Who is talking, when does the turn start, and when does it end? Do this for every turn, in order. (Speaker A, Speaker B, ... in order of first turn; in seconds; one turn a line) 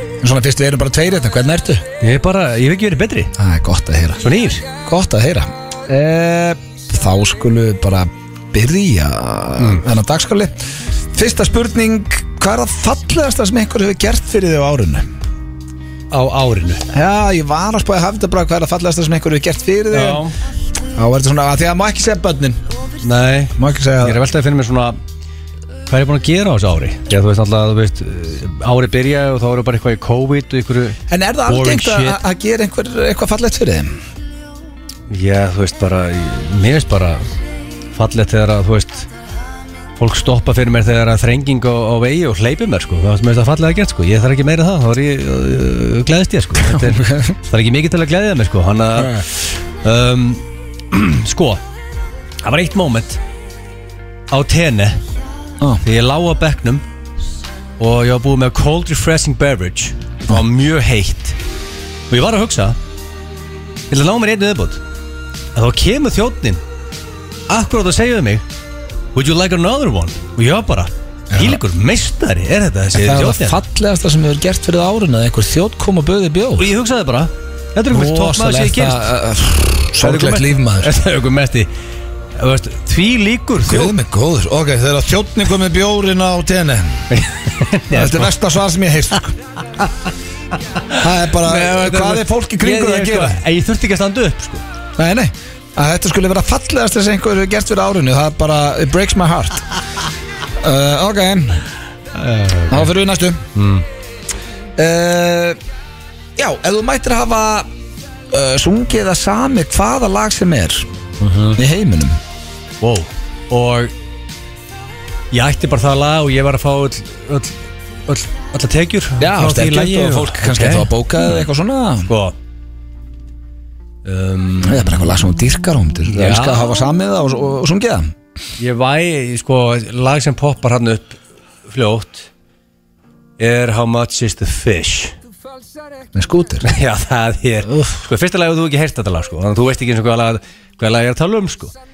Speaker A: 0.2-1.8
Speaker B: 2.0-3.3
Speaker A: 3.4-4.2
Speaker B: 4.2-4.6
Speaker A: 4.8-15.1
Speaker B: 9.6-9.8
Speaker B: 16.1-16.8
Speaker A: 16.9-20.2
Speaker B: 19.9-20.3
Speaker A: 20.9-22.6
Speaker B: 23.0-25.0
Speaker A: 23.6-24.2
Speaker B: 25.9-32.2
Speaker A: 31.1-34.0
Speaker B: 35.1-37.2
Speaker B: 37.9-39.1
Speaker B: 40.0-51.6
Speaker A: 46.6-47.4
Speaker A: 49.0-49.2
Speaker B: 52.4-53.2
Speaker B: 54.3-55.0
Speaker B: 55.8-56.8
Speaker B: 57.8-61.4
Speaker B: 62.1-62.8
Speaker B: 63.9-64.8
Speaker B: 65.5-66.6
Speaker B: 67.5-68.4
Speaker B: 69.1-73.6
Speaker A: 71.3-71.6
Speaker A: 72.9-76.7
Speaker B: 76.5-79.1
Speaker A: 77.9-80.9
Speaker B: 80.0-81.7
Speaker B: 82.3-83.9
Speaker A: 83.6-87.1
Speaker B: 87.1-88.3
Speaker A: 87.9-89.3
Speaker B: 90.8-94.6
Speaker A: 91.0-93.4
Speaker A: 95.0-99.6
Speaker A: 100.6-101.6
Speaker B: 102.1-102.9
Speaker A: 102.7-103.4
Speaker B: 103.5-103.8
Speaker A: 104.8-105.6
Speaker A: 106.4-107.7
Speaker A: 108.3-110.9
Speaker B: 111.2-111.6
Speaker A: 111.5-112.2
Speaker B: 112.8-113.9
Speaker B: 115.3-121.5
Speaker A: 119.2-122.1
Speaker B: 122.0-122.3
Speaker B: 124.0-125.0
Speaker A: 124.6-128.1
Speaker B: 126.0-126.7
Speaker B: 128.6-132.3
Speaker B: 133.4-135.1
Speaker A: 136.1-136.7
Speaker B: 136.6-141.7
Speaker A: 137.7-138.0